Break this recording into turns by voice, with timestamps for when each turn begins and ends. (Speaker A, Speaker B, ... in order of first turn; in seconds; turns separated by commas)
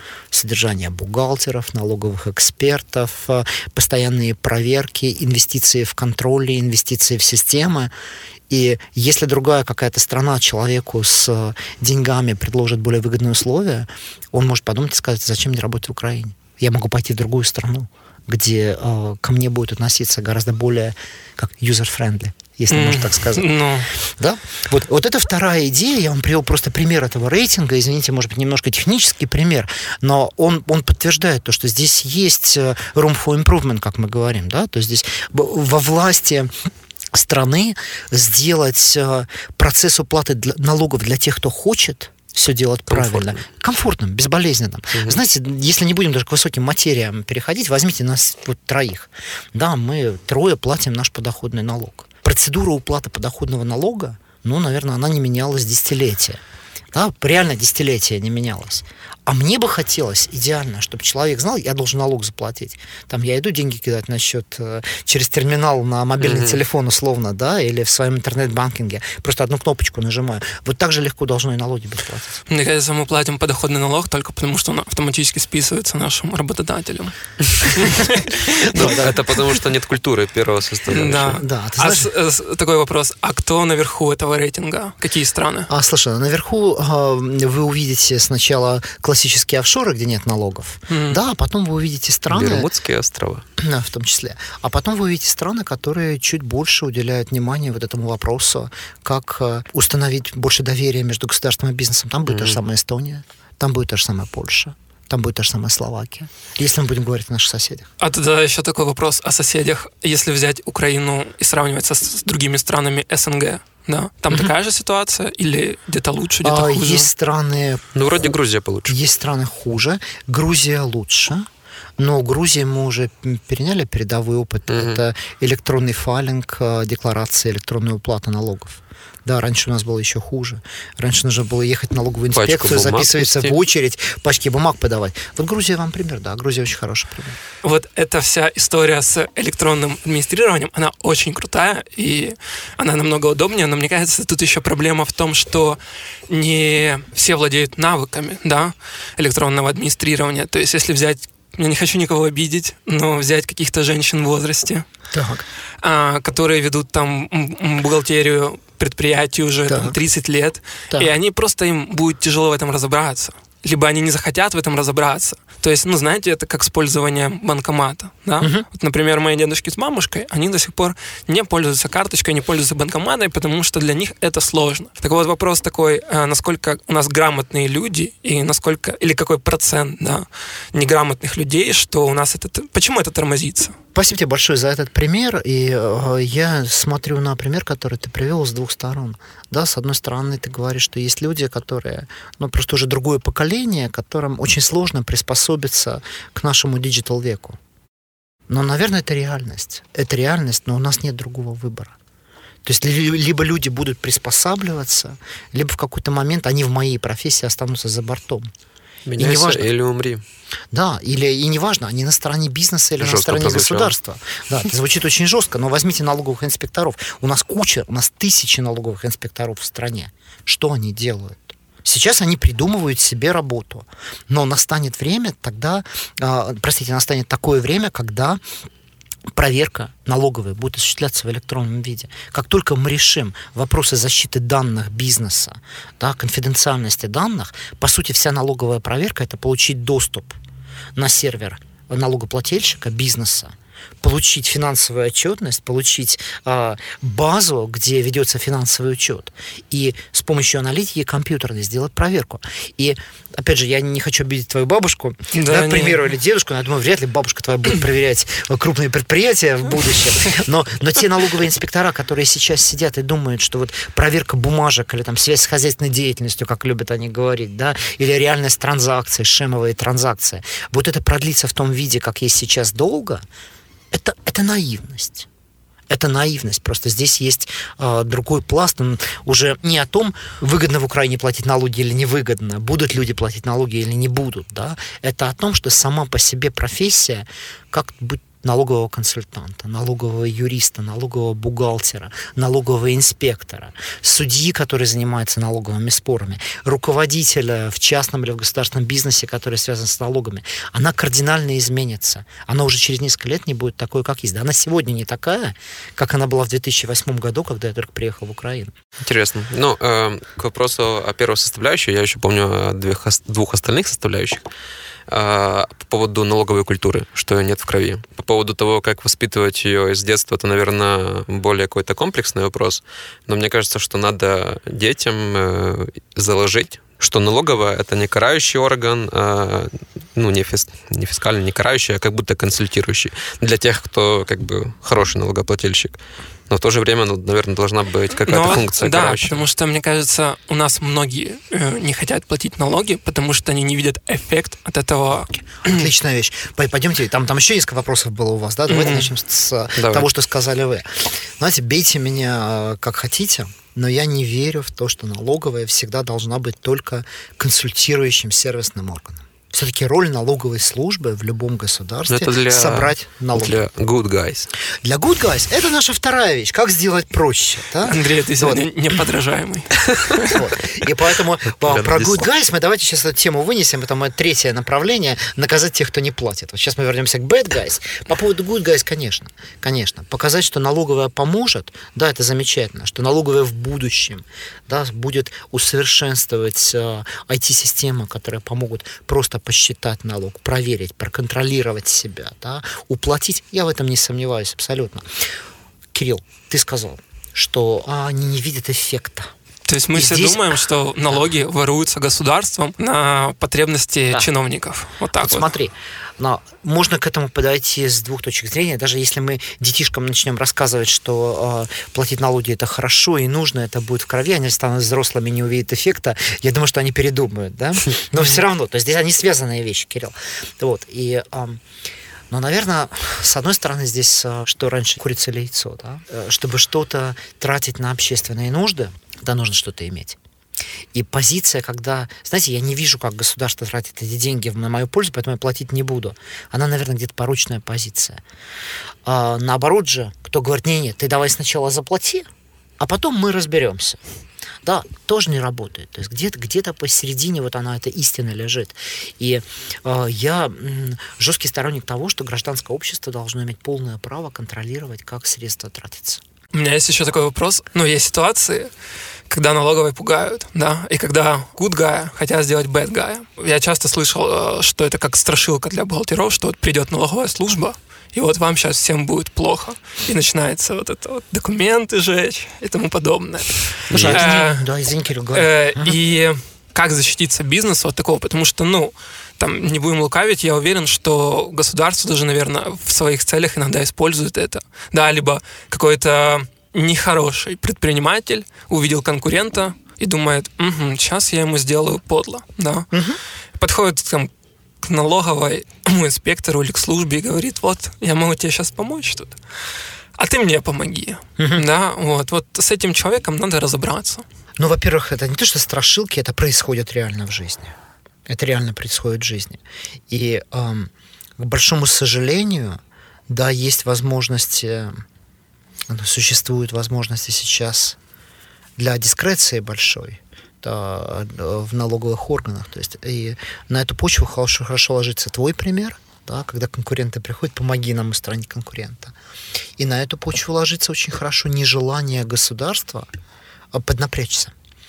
Speaker A: 0.3-7.9, Speaker A: 8.5-23.5, Speaker B: 22.7-23.9, Speaker A: 24.1-36.5, Speaker A: 37.1-56.4, Speaker C: 42.9-43.4, Speaker A: 56.9-72.4, Speaker C: 66.2-66.6, Speaker B: 72.5-78.5, Speaker A: 78.0-79.1, Speaker C: 78.5-81.4, Speaker B: 80.9-85.7, Speaker A: 81.0-82.1, Speaker A: 85.7-92.7, Speaker B: 90.9-91.2, Speaker C: 92.3-93.4, Speaker A: 93.6-107.9, Speaker C: 102.3-102.6, Speaker B: 108.0-117.1, Speaker A: 116.4-118.3, Speaker C: 117.9-119.0, Speaker A: 118.9-137.4, Speaker C: 124.7-125.0, Speaker C: 132.3-133.6, Speaker B: 137.6-154.8, Speaker A: 155.1-155.4, Speaker B: 155.8-183.8, Speaker A: 159.7-159.9, Speaker A: 168.4-168.7, Speaker A: 183.9-197.6, Speaker A: 198.5-201.9, Speaker A: 202.6-208.5, Speaker C: 209.1-210.2, Speaker A: 209.2-209.7, Speaker A: 210.7-228.4, Speaker C: 213.0-213.9, Speaker A: 229.3-240.4, Speaker A: 240.9-273.2, Speaker B: 255.3-256.0, Speaker A: 273.9-275.3, Speaker A: 275.9-308.7, Speaker C: 309.0-314.5, Speaker C: 315.1-339.4, Speaker B: 338.2-345.9, Speaker A: 345.4-363.6, Speaker B: 348.7-349.1, Speaker C: 349.8-350.1, Speaker C: 362.1-364.5, Speaker A: 364.8-368.6, Speaker B: 367.8-370.4, Speaker A: 370.2-395.1, Speaker C: 371.6-372.2, Speaker A: 395.9-399.3, Speaker B: 399.7-405.5, Speaker A: 399.9-400.5, Speaker A: 405.1-421.6, Speaker A: 422.3-430.2, Speaker A: 430.9-438.2, Speaker A: 439.0-442.3, Speaker A: 442.8-444.0, Speaker A: 444.6-456.2, Speaker B: 456.5-458.7, Speaker B: 459.3-474.6, Speaker C: 473.9-474.2, Speaker A: 473.9-475.9, Speaker B: 475.3-492.9, Speaker A: 492.9-493.2, Speaker B: 493.6-494.3, Speaker B: 494.8-499.4, Speaker B: 500.2-504.2, Speaker A: 501.4-501.6, Speaker A: 504.6-507.7, Speaker A: 508.3-515.0, Speaker A: 515.9-518.0, Speaker A: 518.8-529.1, Speaker A: 529.8-533.1, Speaker A: 533.7-534.5